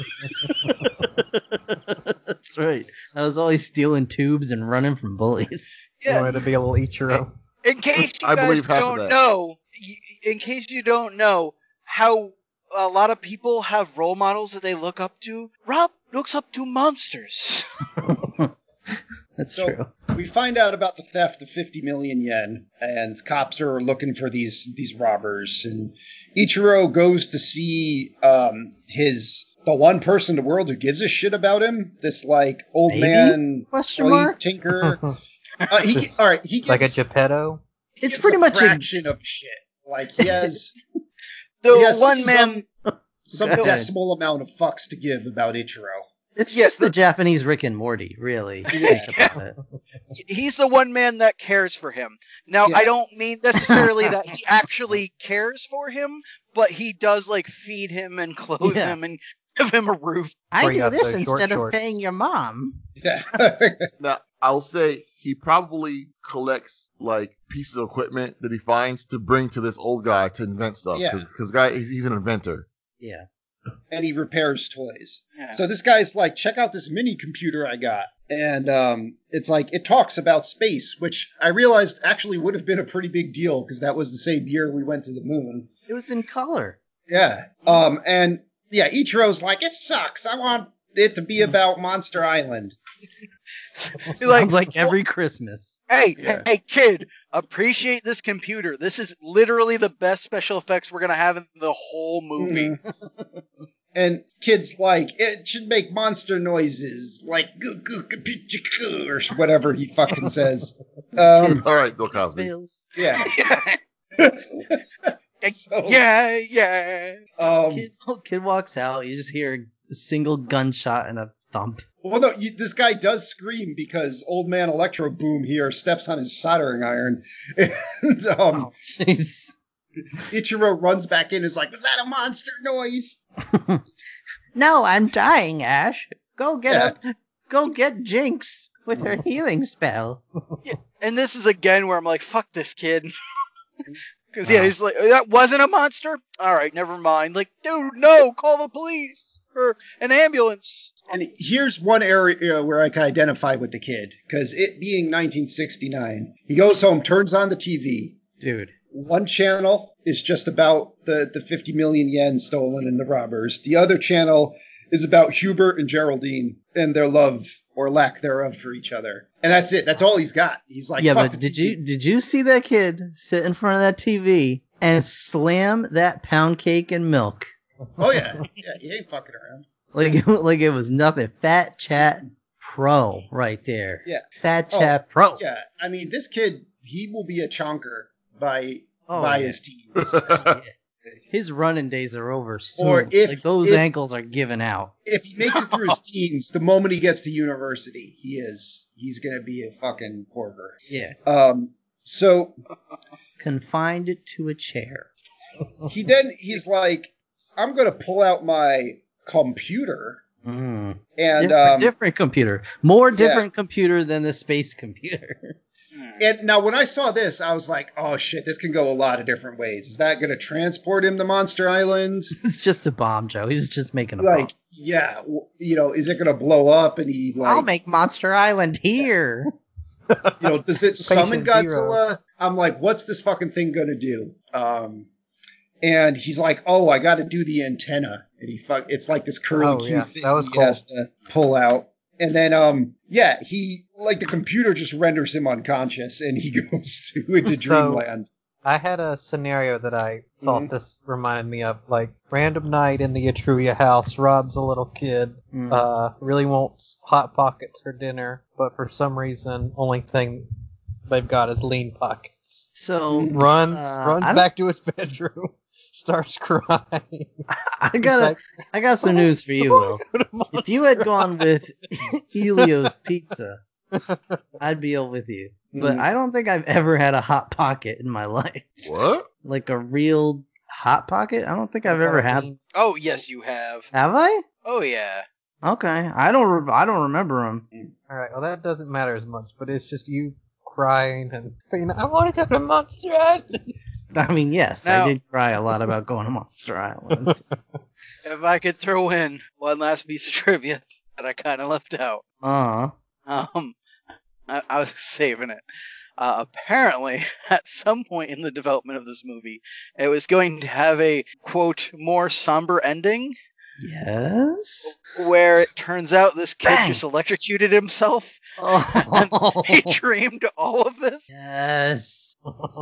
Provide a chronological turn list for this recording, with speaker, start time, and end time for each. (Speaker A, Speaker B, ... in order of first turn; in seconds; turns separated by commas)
Speaker A: 0.6-5.8, Speaker B: 6.0-6.4, Speaker C: 6.0-7.3, Speaker B: 7.2-17.6, Speaker D: 8.2-9.2, Speaker A: 18.2-18.5, Speaker A: 19.4-19.9, Speaker E: 19.5-35.0, Speaker A: 32.9-34.4, Speaker E: 35.7-37.0, Speaker C: 35.9-36.1, Speaker C: 36.6-37.6, Speaker A: 38.0-39.0, Speaker E: 38.0-40.7, Speaker A: 40.2-40.5, Speaker B: 41.6-42.6, Speaker E: 41.7-42.6, Speaker A: 42.0-42.3, Speaker A: 42.9-43.9, Speaker E: 43.3-46.0, Speaker A: 46.4-49.5, Speaker B: 46.5-46.9, Speaker B: 48.7-49.4, Speaker E: 48.7-49.1, Speaker B: 50.1-60.4, Speaker A: 53.5-54.1, Speaker A: 58.6-59.0, Speaker A: 60.5-62.8, Speaker C: 60.6-61.8, Speaker E: 63.0-63.9, Speaker D: 64.0-72.7, Speaker E: 70.9-71.2, Speaker A: 73.0-73.2, Speaker E: 73.9-85.7, Speaker A: 85.9-86.8, Speaker E: 87.1-92.8, Speaker B: 93.9-94.9, Speaker A: 94.2-95.8, Speaker B: 95.9-102.7, Speaker E: 102.4-102.8, Speaker A: 103.0-103.4, Speaker E: 103.9-111.6, Speaker D: 111.4-112.5, Speaker A: 112.1-112.9, Speaker E: 113.0-113.3, Speaker B: 113.2-113.8, Speaker E: 114.2-116.0, Speaker B: 115.4-117.2, Speaker E: 117.4-117.9, Speaker A: 117.7-121.8, Speaker E: 122.0-128.7, Speaker A: 128.5-129.5, Speaker E: 130.3-133.2, Speaker A: 133.5-133.8, Speaker A: 134.5-140.2, Speaker E: 136.7-136.9, Speaker B: 140.6-143.1, Speaker B: 144.3-151.1, Speaker E: 151.1-158.2, Speaker A: 158.4-158.7, Speaker E: 158.9-171.8, Speaker A: 171.0-177.5, Speaker E: 178.0-179.6, Speaker A: 179.9-185.4, Speaker E: 184.0-190.4, Speaker A: 189.1-189.6, Speaker D: 190.0-190.6, Speaker A: 190.3-190.7, Speaker A: 191.3-194.9, Speaker E: 192.8-193.9, Speaker E: 195.1-202.6, Speaker B: 195.4-195.9, Speaker A: 200.9-201.1, Speaker A: 203.4-205.1, Speaker E: 205.9-210.2, Speaker A: 210.4-215.5, Speaker E: 211.2-211.9, Speaker E: 213.1-213.4, Speaker B: 215.9-216.2, Speaker E: 216.2-222.3, Speaker A: 222.4-224.5, Speaker E: 224.2-227.7, Speaker A: 227.4-229.5, Speaker C: 230.1-232.0, Speaker E: 230.4-235.1, Speaker E: 235.8-248.3, Speaker C: 239.5-240.8, Speaker C: 247.5-248.0, Speaker C: 248.6-260.4, Speaker E: 250.4-250.7, Speaker A: 255.5-255.9, Speaker C: 261.1-262.7, Speaker A: 262.7-264.5, Speaker E: 263.1-263.4, Speaker C: 263.3-267.4, Speaker A: 267.7-273.6, Speaker C: 268.1-268.4, Speaker C: 269.0-271.4, Speaker C: 272.6-272.9, Speaker C: 273.9-274.4, Speaker A: 274.6-278.7, Speaker E: 275.7-276.1, Speaker D: 278.8-279.3, Speaker A: 279.4-282.5, Speaker C: 281.9-282.6, Speaker B: 282.7-283.9, Speaker A: 283.9-284.4, Speaker B: 284.6-285.2, Speaker A: 285.6-287.6, Speaker C: 288.1-293.7, Speaker A: 294.1-297.4, Speaker B: 294.8-295.1, Speaker C: 297.1-297.6, Speaker B: 298.2-302.2, Speaker A: 302.4-302.9, Speaker B: 303.3-303.8, Speaker B: 304.5-305.6, Speaker B: 306.2-313.3, Speaker A: 313.8-314.9, Speaker B: 314.9-321.2, Speaker A: 316.6-317.0, Speaker A: 318.6-320.0, Speaker A: 321.3-322.4